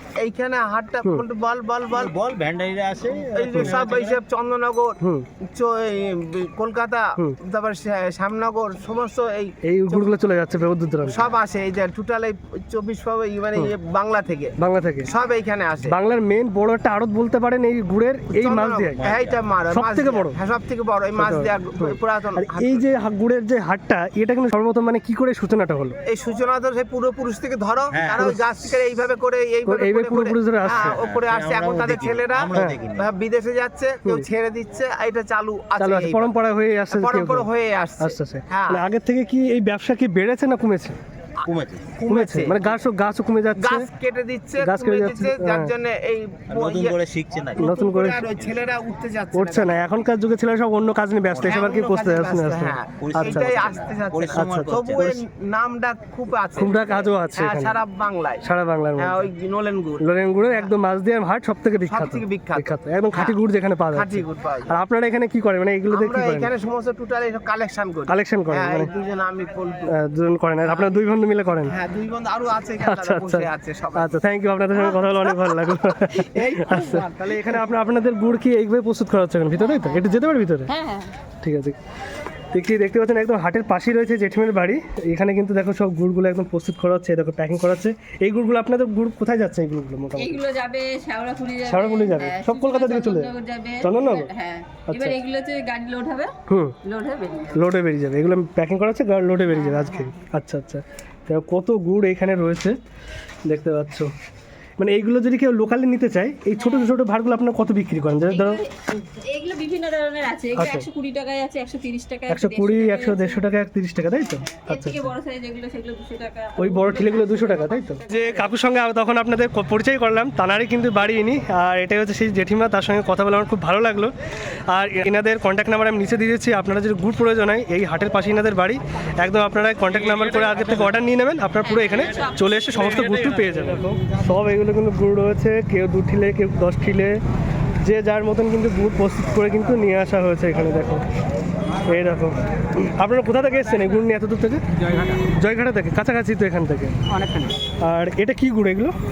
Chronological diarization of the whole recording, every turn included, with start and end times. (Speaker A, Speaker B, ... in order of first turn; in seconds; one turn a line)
Speaker A: 0.1-2.1
Speaker B: 2.0-4.2
Speaker A: 3.3-10.2
Speaker C: 5.0-5.2
Speaker C: 9.6-11.2
Speaker A: 11.0-14.5
Speaker C: 14.6-15.1
Speaker A: 15.0-15.9
Speaker C: 15.9-19.0
Speaker A: 18.3-22.8
Speaker B: 19.0-19.4
Speaker C: 19.7-20.3
Speaker C: 21.2-26.0
Speaker A: 26.1-36.3
Speaker B: 27.9-28.3
Speaker C: 29.6-31.0
Speaker B: 30.7-33.1
Speaker C: 35.8-37.5
Speaker A: 36.9-38.8
Speaker C: 38.0-41.0
Speaker B: 41.5-41.9
Speaker A: 41.5-42.7
Speaker C: 42.1-43.9
Speaker A: 43.6-47.0
Speaker C: 44.6-45.7
Speaker B: 46.5-47.8
Speaker A: 47.5-49.7
Speaker C: 47.6-48.2
Speaker B: 48.3-48.6
Speaker C: 49.3-53.7
Speaker A: 51.4-58.4
Speaker B: 53.0-55.2
Speaker C: 54.3-54.7
Speaker C: 56.5-57.8
Speaker C: 58.4-59.3
Speaker A: 59.0-60.7
Speaker C: 60.0-66.5
Speaker A: 61.9-63.4
Speaker A: 63.9-64.7
Speaker A: 65.9-69.9
Speaker C: 68.1-68.9
Speaker C: 69.9-71.7
Speaker A: 70.7-71.0
Speaker A: 71.7-74.2
Speaker C: 72.8-80.7
Speaker A: 75.3-77.7
Speaker D: 80.7-81.1
Speaker C: 81.4-81.8
Speaker C: 82.5-90.4
Speaker D: 90.2-96.3
Speaker C: 91.6-93.3
Speaker C: 93.8-94.3
Speaker C: 94.9-95.2
Speaker C: 96.5-96.8
Speaker D: 96.8-97.5
Speaker C: 97.5-102.8
Speaker D: 99.5-100.1
Speaker C: 103.5-104.1
Speaker C: 104.8-108.6
Speaker D: 108.3-108.7
Speaker D: 109.2-113.4
Speaker C: 110.5-110.9
Speaker C: 112.3-115.1
Speaker D: 114.7-118.2
Speaker C: 116.6-124.1
Speaker C: 124.7-137.2
Speaker D: 131.9-132.6
Speaker C: 137.8-141.0
Speaker C: 141.9-146.9
Speaker C: 147.8-148.9